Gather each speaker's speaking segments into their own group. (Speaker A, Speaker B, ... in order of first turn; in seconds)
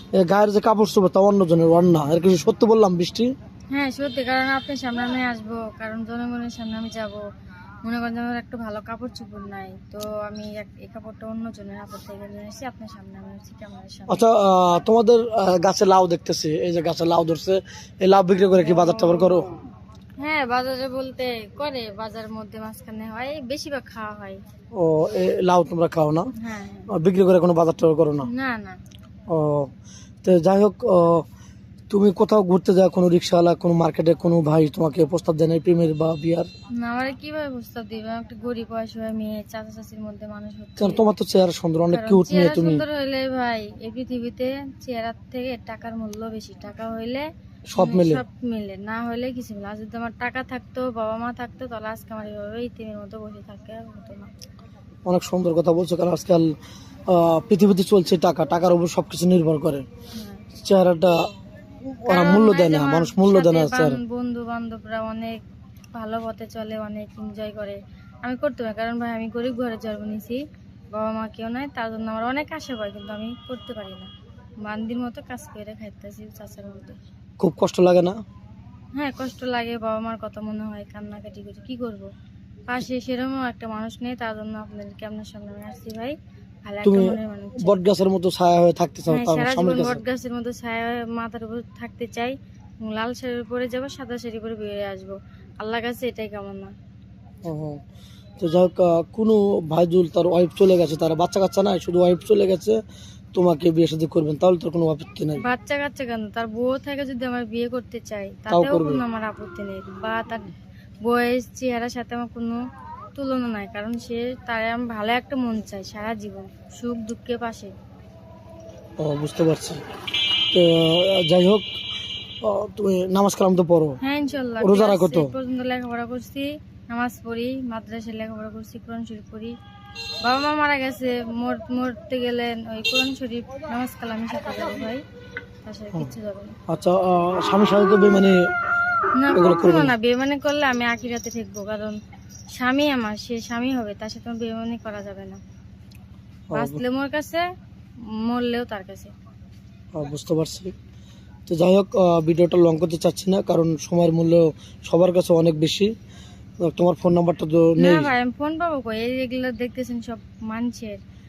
Speaker A: 0.1-3.3, 14.1-19.5, 24.8-26.3, 26.9-28.3, 29.3-29.7, 30.2-31.2, 31.9-36.5, 40.8-42.8, 47.7-48.2, 55.0-56.5, 57.1-59.8, 60.5-61.2, 61.9-64.0, 77.4-78.2, 86.8-90.0, 97.4-97.8, 98.4-102.8, 103.3-105.4, 108.5-109.0, 119.0-119.8, 120.5-121.7, 122.4-124.0, 124.6-125.3, 136.7-138.4, 139.3-139.9, 146.5-146.8, 149.9-150.7, 151.5-155.9, 156.6-158.1
Speaker B: 3.7-7.2, 7.8-14.2, 18.6-19.4, 20.2-24.4, 26.4-26.9, 28.2-28.8, 36.7-41.0, 41.9-47.2, 47.8-54.3, 60.1-60.5, 62.1-65.4, 65.9-70.4, 70.9-74.1, 74.6-77.0, 79.0-82.1, 82.7-87.8, 89.1-96.7, 105.4-110.5, 111.0-112.6, 113.1-117.7, 124.0-129.6, 130.2-135.0, 135.7-136.6, 139.2-142.0, 142.6-145.4, 146.6-147.4, 148.1-149.1, 157.8-161.0